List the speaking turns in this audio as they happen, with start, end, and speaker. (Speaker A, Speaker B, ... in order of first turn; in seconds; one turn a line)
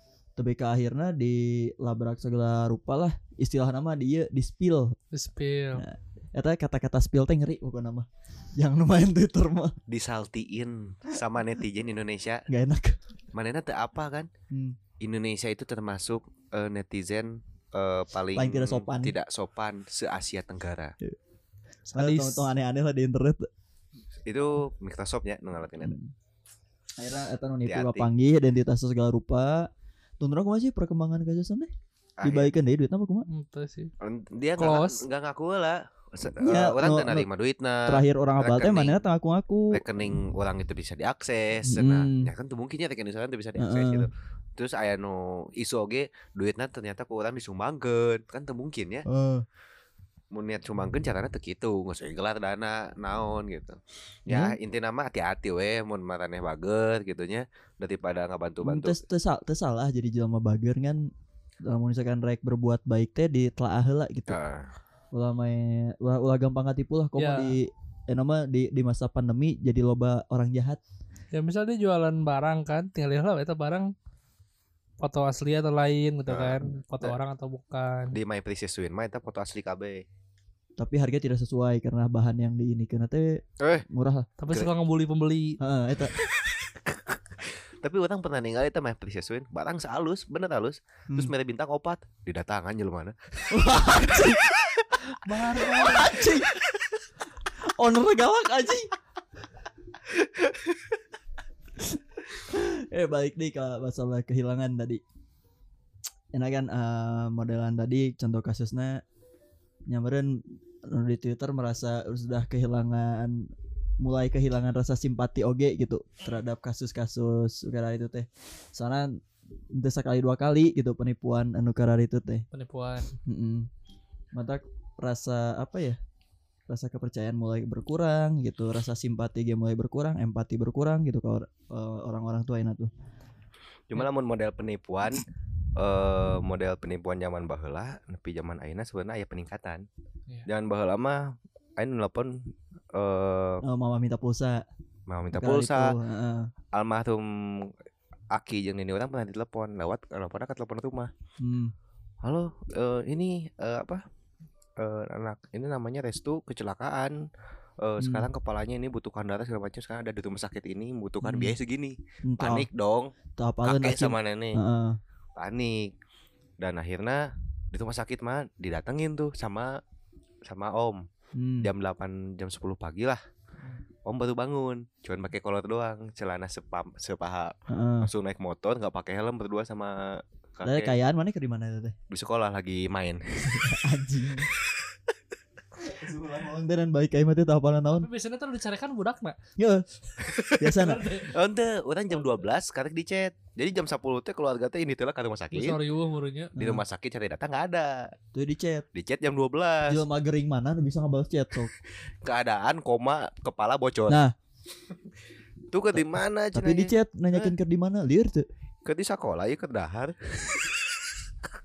Speaker A: 0.4-5.0
Speaker B: 5.1-5.9
Speaker A: 5.8-9.8
Speaker C: 9.9-12.5
Speaker A: 12.5-13.0
Speaker C: 13.3-14.3
Speaker A: 14.5-14.8
Speaker C: 15.0-21.0
Speaker A: 18.4-19.2
Speaker B: 21.9-22.5
Speaker A: 22.0-23.5
Speaker C: 24.3-26.0
Speaker A: 25.8-26.1
Speaker A: 27.0-31.7
Speaker C: 27.7-28.1
Speaker C: 32.2-32.5
Speaker A: 32.2-33.3
Speaker B: 33.3-33.9
Speaker C: 34.0-39.0
Speaker B: 34.6-35.0
Speaker A: 36.4-37.3
Speaker A: 37.9-39.8
Speaker C: 39.7-49.1
Speaker A: 41.7-42.3
Speaker A: 43.6-44.1
Speaker A: 49.1-49.5
Speaker C: 50.3-59.0
Speaker A: 54.3-54.6
Speaker A: 58.6-61.1
Speaker A: 61.6-64.4
Speaker C: 64.3-64.7
Speaker A: 65.1-70.8
Speaker B: 67.2-67.6
Speaker B: 71.3-73.9
Speaker B: 75.0-78.2
Speaker C: 76.3-77.2
Speaker C: 78.1-80.0
Speaker A: 80.8-84.3
Speaker C: 83.6-83.9
Speaker B: 84.4-85.6
Speaker A: 85.6-86.1
Speaker C: 86.3-95.0
Speaker A: 93.5-94.5
Speaker B: 95.2-96.2
Speaker A: 95.6-96.5
Speaker C: 96.2-97.0
Speaker A: 97.7-98.9
Speaker A: 101.8-105.0
Speaker A: 106.3-109.0
Speaker A: 109.9-119.2
Speaker A: 119.7-122.5
Speaker B: 122.5-123.2
Speaker A: 123.3-123.7
Speaker A: 124.3-126.0
Speaker A: 126.7-132.9
Speaker C: 133.9-139.9
Speaker C: 140.5-143.6
Speaker A: 143.6-144.7
Speaker C: 145.1-145.9
Speaker A: 145.3-146.5
Speaker C: 146.7-147.7
Speaker C: 148.3-151.1
Speaker A: 151.4-151.7
Speaker C: 152.2-154.0
Speaker C: 154.8-157.2
Speaker C: 157.8-163.1
Speaker A: 158.0-158.3
Speaker A: 161.2-161.6
Speaker A: 162.2-162.7
Speaker A: 163.4-165.0
Speaker C: 163.6-164.6
Speaker C: 165.4-165.9
Speaker C: 166.6-169.8
Speaker C: 170.5-171.1
Speaker A: 171.3-171.7
Speaker C: 171.6-173.2
Speaker C: 174.1-180.9
Speaker A: 177.7-178.1
Speaker A: 180.6-181.9
Speaker C: 182.1-183.7
Speaker A: 183.5-184.5
Speaker A: 185.8-188.1
Speaker B: 187.9-189.4
Speaker A: 189.6-189.8
Speaker C: 190.2-190.7
Speaker A: 190.6-191.1
Speaker B: 190.7-191.3
Speaker C: 191.3-195.8
Speaker B: 195.5-196.6
Speaker A: 196.6-196.8
Speaker C: 196.6-198.2
Speaker A: 198.3-198.8
Speaker C: 198.9-200.0
Speaker A: 199.9-201.7
Speaker C: 202.2-204.2
Speaker A: 204.1-204.3
Speaker C: 205.7-207.5
Speaker A: 206.5-208.5
Speaker C: 208.8-211.1